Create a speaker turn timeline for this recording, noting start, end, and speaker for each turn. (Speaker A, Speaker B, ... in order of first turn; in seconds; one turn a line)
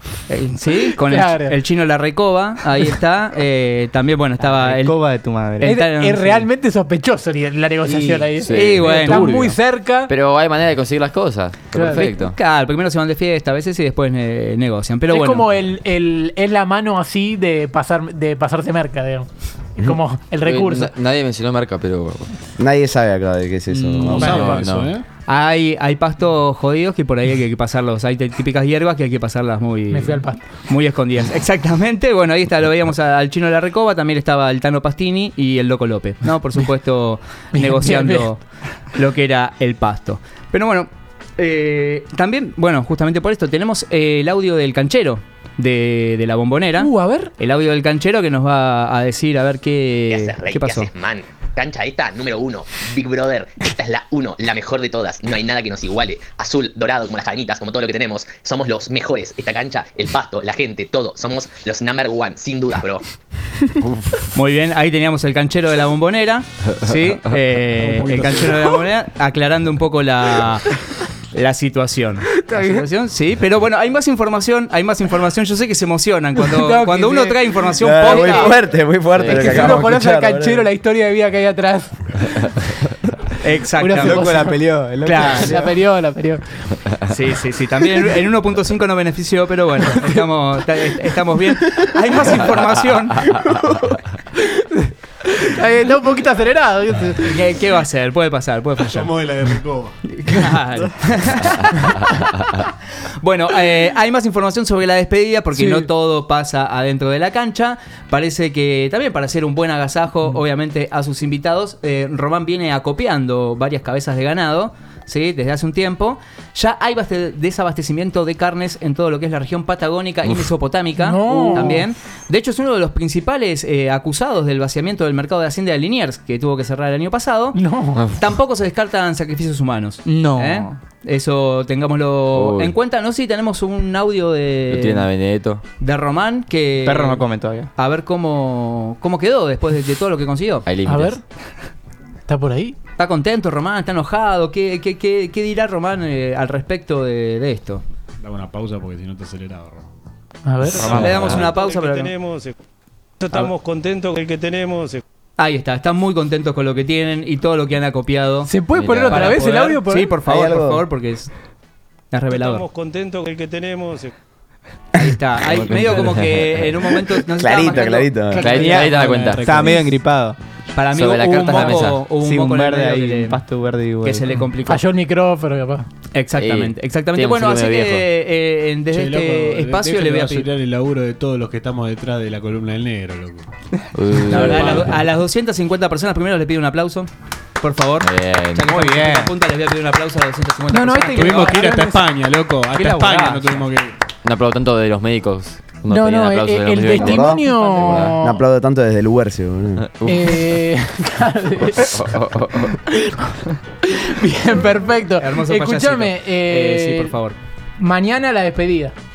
Speaker A: 0.3-6.5
Speaker B: 0.9-1.6
Speaker C: 4.4-5.7
Speaker B: 5.6-10.1
Speaker C: 7.8-9.6
Speaker D: 8.4-9.1
Speaker A: 8.5-9.5
Speaker D: 10.1-12.4
Speaker B: 11.8-12.1
Speaker A: 11.8-15.5
Speaker B: 15.1-20.9
Speaker D: 20.4-22.3
Speaker E: 22.6-24.4
Speaker F: 23.7-25.1
Speaker D: 23.9-25.0
Speaker B: 24.1-24.6
Speaker A: 25.3-38.4
Speaker B: 29.9-30.4
Speaker B: 37.5-38.3
Speaker A: 38.9-50.9
Speaker B: 46.8-47.3
Speaker G: 50.1-63.0
Speaker D: 63.9-64.2
Speaker A: 64.3-70.8
Speaker F: 67.8-68.8
Speaker A: 71.3-78.6
Speaker B: 76.4-78.6
Speaker E: 77.8-80.7
Speaker D: 79.1-79.8
Speaker B: 79.2-82.8
Speaker A: 83.4-84.5
Speaker B: 83.8-84.6
Speaker C: 83.9-85.7
Speaker A: 85.0-85.7
Speaker B: 85.2-86.4
Speaker A: 87.1-93.3
Speaker B: 93.3-97.3
Speaker A: 97.2-99.1
Speaker F: 98.9-100.0
Speaker A: 100.1-102.1
Speaker A: 103.0-127.6
Speaker B: 105.6-105.8
Speaker B: 121.0-121.9
Speaker B: 127.5-128.1
Speaker D: 128.0-128.2
Speaker A: 128.2-135.1
Speaker C: 130.1-130.7
Speaker D: 132.3-132.8
Speaker D: 134.7-135.6
Speaker A: 135.8-137.2
Speaker C: 136.8-137.7
Speaker A: 137.8-140.7
Speaker D: 140.7-141.2
Speaker B: 140.9-141.2
Speaker B: 142.3-142.8
Speaker A: 143.0-147.8
Speaker F: 148.2-149.9
Speaker B: 150.4-151.0
Speaker A: 150.8-152.1
Speaker H: 150.8-152.5
Speaker F: 150.9-151.4
Speaker H: 153.2-155.0
Speaker A: 155.4-158.5
Speaker B: 158.5-160.2
Speaker D: 158.7-159.3
Speaker A: 159.1-161.3
Speaker E: 160.2-160.9
Speaker A: 162.1-162.7
Speaker H: 162.3-164.1
Speaker A: 164.9-168.5
Speaker D: 165.5-166.9
Speaker E: 167.3-168.7
Speaker F: 168.3-170.0
Speaker D: 168.3-169.6
Speaker C: 168.5-170.4
Speaker A: 170.7-173.4
Speaker D: 170.9-172.1
Speaker C: 171.5-174.3
Speaker A: 174.0-174.9
Speaker B: 174.6-175.9
Speaker A: 176.1-180.5
Speaker D: 176.4-178.1
Speaker F: 178.9-183.5
Speaker D: 183.9-184.8
Speaker A: 184.3-187.1
Speaker F: 184.3-185.0
Speaker A: 187.6-191.7
Speaker D: 188.0-188.8
Speaker C: 188.7-189.3
Speaker B: 190.7-192.1
Speaker F: 191.1-194.0
Speaker C: 192.7-193.7
Speaker D: 194.2-198.2
Speaker B: 195.9-198.4
Speaker E: 197.0-197.5
Speaker E: 198.1-199.8
Speaker D: 199.8-200.6
Speaker B: 200.1-203.2
Speaker D: 201.7-202.8
Speaker B: 203.8-207.2
Speaker A: 205.2-207.4
Speaker B: 207.8-208.9